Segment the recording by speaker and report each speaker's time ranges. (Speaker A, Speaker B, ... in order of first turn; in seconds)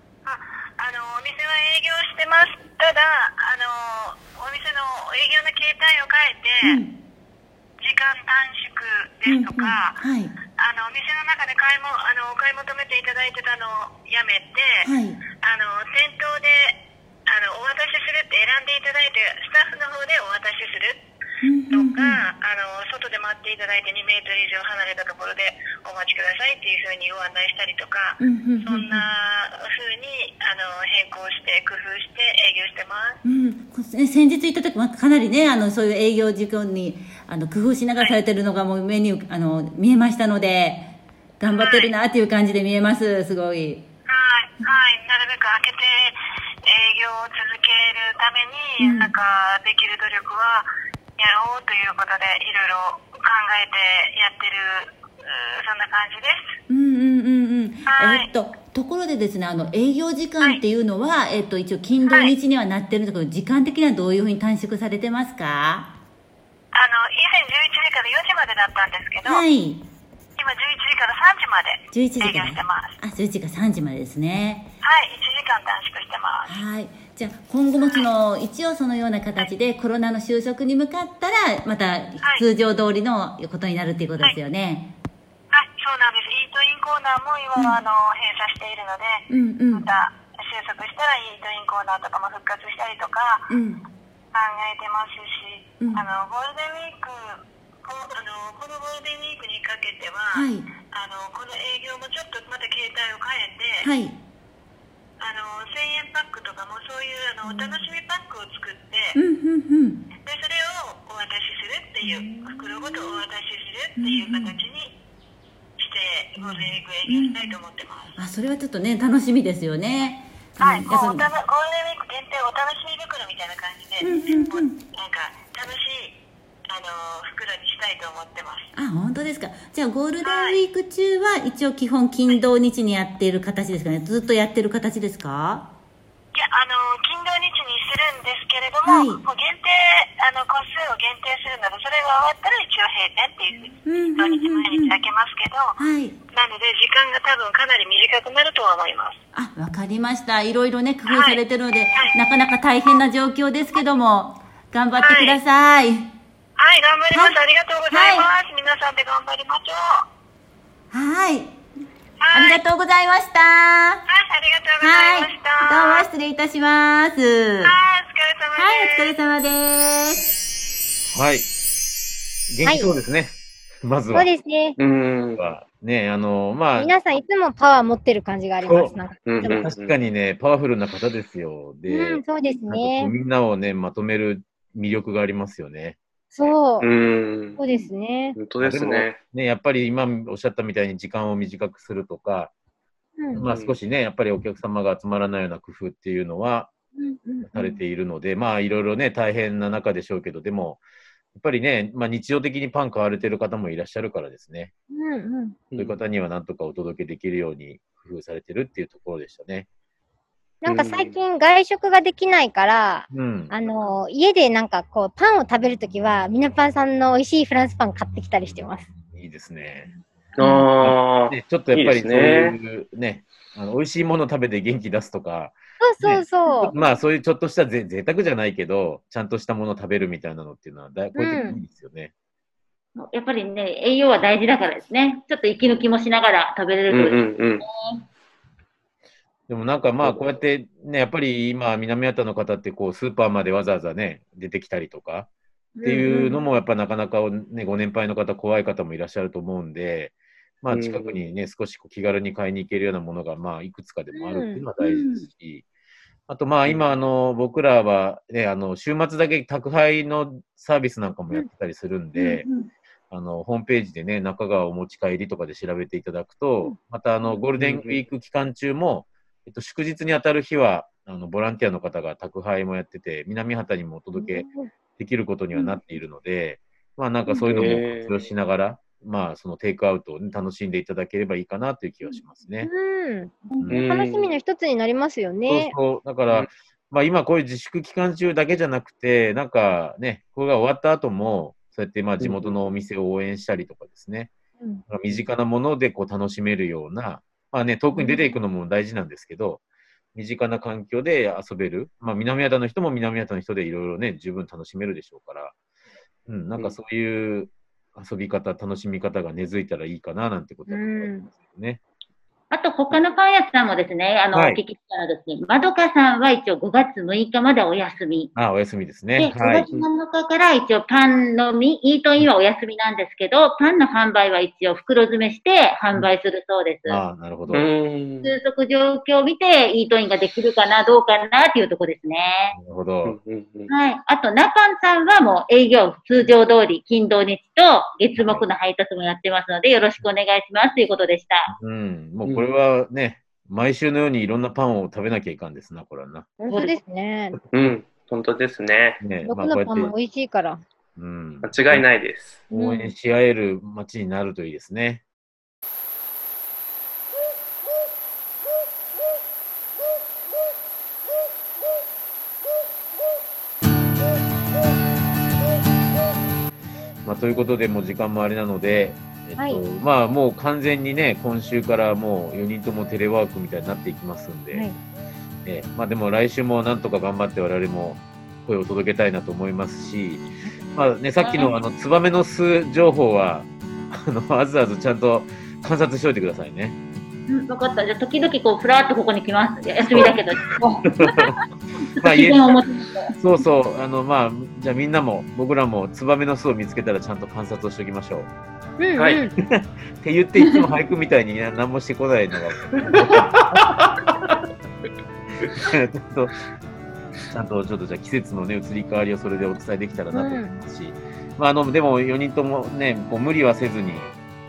Speaker A: 0.2-6.8, 7.8-10.0, 10.6-14.9, 15.4-16.8, 17.3-21.0, 21.7-33.2, 41.5-41.9, 44.1-56.5, 57.9-58.3, 62.0-62.3, 66.7-69.4, 70.4-72.9, 74.8-76.5, 85.5-93.4, 94.3-103.9, 105.2-109.2, 110.2-114.9, 115.8-118.1, 120.6-126.2, 126.7-128.7, 130.2-130.6, 136.3-145.7, 146.3-149.2, 151.1-151.4, 155.0-155.4, 156.6-160.0, 162.2-162.6, 164.1-166.1, 167.6-169.1
Speaker B: 6.6-6.9, 9.2-10.3, 14.8-15.2, 21.4-22.2, 28.2-29.1, 33.2-43.9, 48.8-49.1, 56.7-65.9, 69.2-69.8, 71.9-74.7, 76.5-84.9, 87.5-87.8, 89.3-89.9, 93.5-93.8, 95.8-96.0, 100.3-100.7, 103.8-104.2, 107.4-107.8, 109.1-110.0, 112.0-112.5, 114.0-114.6, 116.4-117.6, 118.2-121.3, 124.0-124.8, 128.7-135.7, 138.8-139.2, 143.8-145.0, 145.8-146.2, 149.3-156.1, 157.1-158.3, 160.9-161.6, 162.3-164.0, 164.8-167.7, 168.6-170.3
Speaker C: 171.1-171.5, 172.5-174.3, 175.3-176.9, 178.6-186.5, 188.6-192.5, 193.3-196.7, 197.4-200.8, 201.3-204.7, 205.7-209.7, 213.1-213.5, 219.0-219.9, 220.8-232.1, 239.5-245.3, 245.8-255.6, 256.3-262.5, 263.1-282.7, 285.5-294.3, 294.9-299.6, 300.1-305.5, 306.3-311.8, 314.3-314.6, 318.4-319.7, 326.9-327.7, 332.5-333.2, 338.2-338.4, 341.5-346.3, 349.0-349.9, 350.9-351.9, 352.5-355.0, 367.0-374.7, 375.4-380.2, 380.7-386.8, 389.9-390.2, 391.0-391.3, 392.0-392.5, 393.1-398.3, 399.4-403.7, 405.5-406.3, 407.3-414.1
Speaker D: 174.1-174.8, 176.8-179.6, 181.9-183.1, 186.3-186.9, 187.6-188.4, 193.2-193.4, 197.0-197.8, 204.9-205.6, 210.6-218.9, 225.8-226.7, 231.2-231.6, 254.1-254.6, 274.1-274.7, 275.5-275.8, 282.0-285.7, 297.9-298.3, 310.7-311.3, 346.4-347.4, 349.2-350.6, 352.5-352.9, 374.5-374.8, 398.8-399.3, 410.1-410.5
Speaker E: 174.8-175.4, 179.2-179.9, 186.8-187.6, 188.3-189.2, 193.4-193.8, 205.7-206.0, 210.7-211.1, 220.4-222.6, 236.9-237.7, 250.7-251.1, 267.6-268.0, 277.4-278.2, 283.7-284.4, 292.2-292.5, 327.5-328.4, 333.0-333.7, 347.5-349.1, 351.4-352.4, 399.0-399.2, 402.8-404.1
Speaker F: 232.9-238.0, 245.8-246.2, 254.8-255.3, 262.1-262.7, 312.5-318.3, 319.2-327.0, 328.2-332.6, 333.7-341.5, 346.5-346.8, 381.2-381.5, 387.3-391.4, 392.0-393.1